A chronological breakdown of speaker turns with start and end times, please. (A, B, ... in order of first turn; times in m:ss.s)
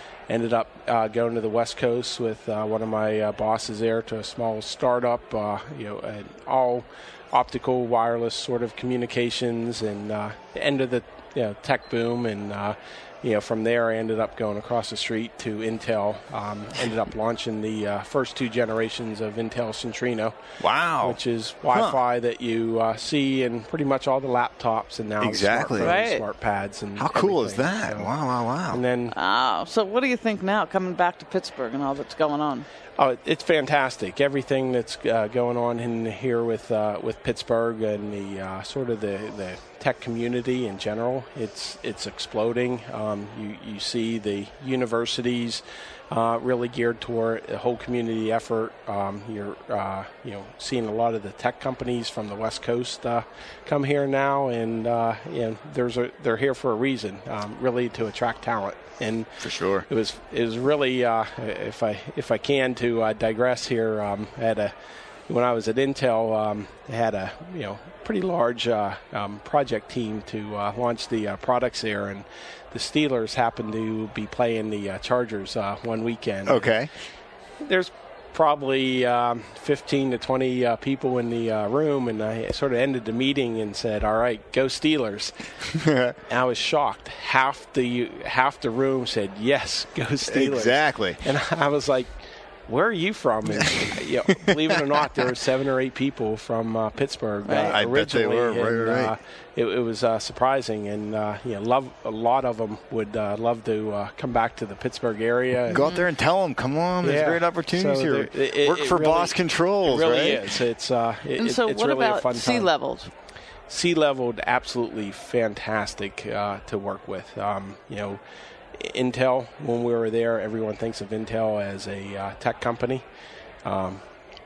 0:00.3-0:20.3 A
0:20.6-0:21.2 B
0:21.0-0:28.1 A
0:21.7-0:22.0 B
0:25.2-0:26.0 B
0:25.8-0:26.2 C
0:27.0-0:28.8 B
0:28.7-0:29.1 A
0:29.1-0:32.6 C
0:33.0-1:04.7 A
0:59.4-0:59.9 B
1:05.3-1:16.7 A
1:16.4-1:16.9 B
1:17.6-1:25.3 A
1:25.7-1:26.1 B
1:26.3-1:32.1 A
1:30.2-1:31.2 B
1:32.7-1:45.8 A
1:37.4-1:37.8 C
1:37.6-1:39.1 B
1:45.7-1:50.5 B
1:45.7-1:46.0 C
1:47.0-1:52.7 A
1:51.4-1:53.1 C
1:53.7-1:58.2 A
1:58.7-2:03.0 A
2:03.6-2:04.0 A